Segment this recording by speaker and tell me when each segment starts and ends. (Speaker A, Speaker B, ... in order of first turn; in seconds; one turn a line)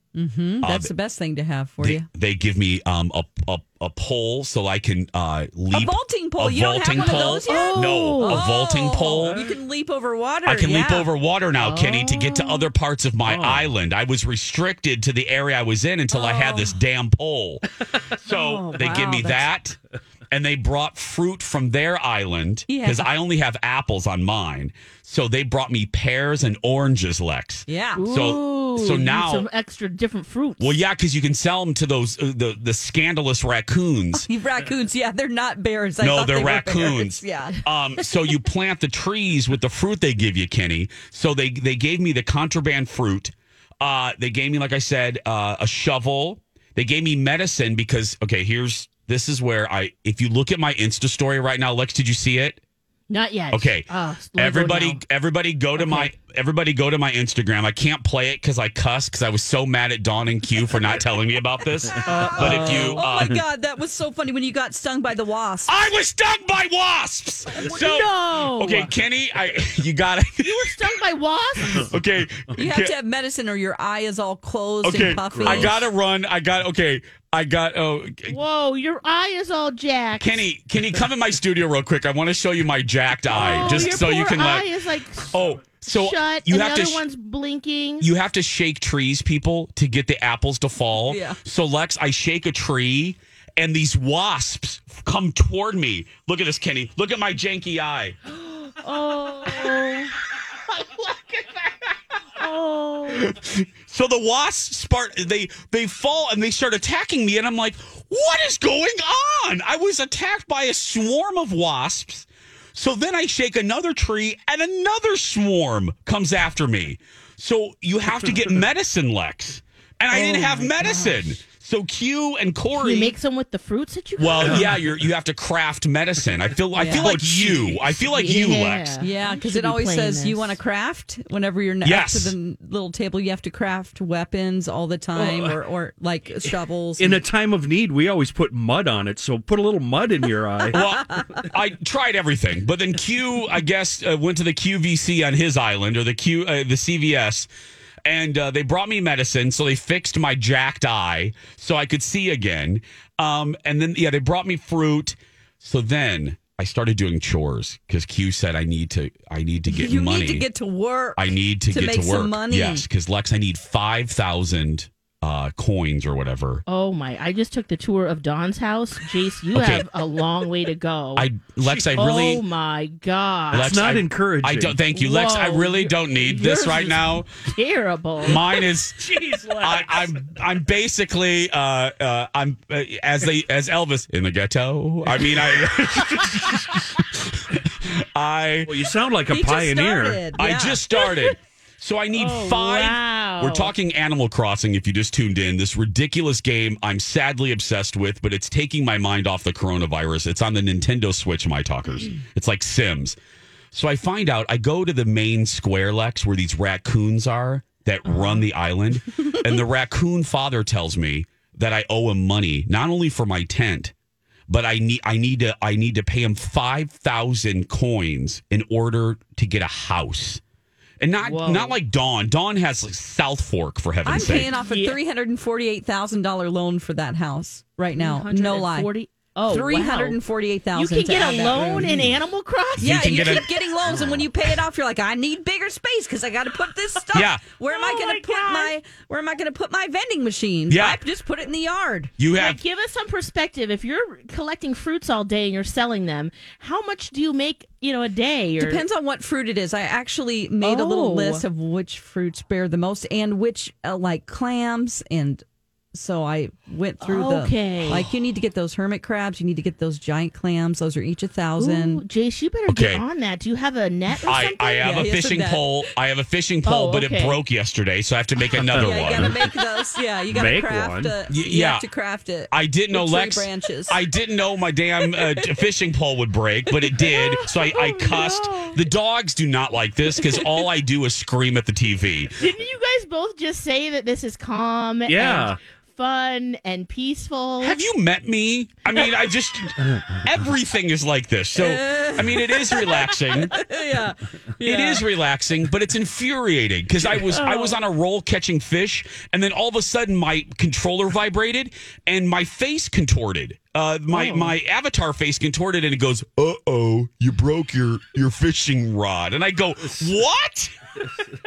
Speaker A: 0.1-2.1
Speaker B: 0.6-0.9
Speaker B: 1.8-9.4
Speaker A: 5.7-11.1
Speaker C: 7.0-8.4
Speaker B: 10.4-19.8
Speaker C: 12.1-12.5
Speaker D: 13.2-13.7
Speaker A: 16.1-16.8
Speaker A: 18.3-19.5
Speaker B: 20.3-29.5
Speaker A: 22.7-23.1
Speaker A: 27.7-28.0
Speaker C: 28.0-30.7
Speaker B: 30.6-34.3
Speaker A: 34.1-37.6
Speaker B: 36.0-52.6
Speaker C: 53.1-55.0
Speaker B: 53.5-63.4
Speaker C: 55.8-56.1
Speaker D: 62.1-62.9
Speaker A: 62.1-65.8
Speaker B: 65.7-70.8
Speaker C: 67.6-68.9
Speaker C: 70.4-71.9
Speaker B: 71.8-73.0
Speaker A: 72.5-75.7
Speaker B: 74.8-78.4
Speaker D: 75.2-75.8
Speaker C: 78.3-80.5
Speaker B: 80.2-84.7
Speaker C: 83.3-88.1
Speaker B: 85.3-87.0
Speaker B: 88.0-98.2
Speaker A: 91.1-91.4
Speaker A: 98.8-100.0
Speaker C: 99.4-100.0
Speaker C: 102.4-103.2
Speaker B: 103.1-123.2
Speaker A: 120.1-121.0
Speaker C: 122.8-124.7
Speaker B: 124.2-129.0
Speaker D: 124.4-124.7
Speaker A: 126.8-127.1
Speaker D: 126.9-128.1
Speaker C: 128.1-130.6
Speaker A: 129.0-137.2
Speaker B: 131.8-132.3
Speaker D: 135.2-135.6
Speaker D: 137.0-140.8
Speaker B: 140.7-147.5
Speaker B: 148.1-160.5
Speaker A: 159.7-162.8
Speaker B: 161.2-166.6
Speaker C: 166.7-171.3
Speaker B: 169.5-169.9
Speaker B: 171.2-172.4
Speaker D: 171.6-172.3
Speaker C: 171.9-173.8
Speaker D: 173.5-174.8
Speaker B: 173.5-177.3
Speaker C: 174.9-178.4
Speaker B: 178.2-188.8
Speaker D: 179.0-180.2
Speaker D: 185.2-186.8
Speaker D: 188.7-190.3
Speaker A: 189.3-190.8
Speaker B: 190.4-203.2
Speaker C: 191.0-191.3
Speaker C: 192.1-193.7
Speaker B: 203.7-213.9
Speaker B: 214.5-220.4
Speaker B: 221.0-224.5
Speaker C: 221.2-221.8
Speaker A: 224.1-228.9
Speaker C: 224.2-225.0
Speaker C: 227.9-230.2
Speaker A: 229.5-231.9
Speaker C: 230.7-233.4
Speaker B: 232.8-234.1
Speaker A: 232.8-242.1
Speaker B: 237.1-237.4
Speaker C: 237.7-238.7
Speaker B: 240.7-241.0
Speaker B: 242.2-242.6
Speaker C: 242.3-248.8
Speaker A: 248.6-262.0
Speaker C: 250.6-251.4
Speaker C: 257.0-258.1
Speaker C: 261.6-265.1
Speaker B: 262.7-263.0
Speaker B: 264.2-269.4
Speaker A: 264.8-265.7
Speaker C: 266.6-267.4
Speaker D: 268.6-269.4
Speaker A: 268.7-274.0
Speaker D: 270.3-271.1
Speaker B: 271.3-271.9
Speaker B: 272.5-282.3
Speaker C: 278.1-278.7
Speaker C: 282.4-287.8
Speaker D: 285.1-285.6
Speaker B: 287.6-293.6
Speaker D: 289.9-290.2
Speaker A: 291.6-295.1
Speaker B: 294.6-310.7
Speaker C: 297.4-297.8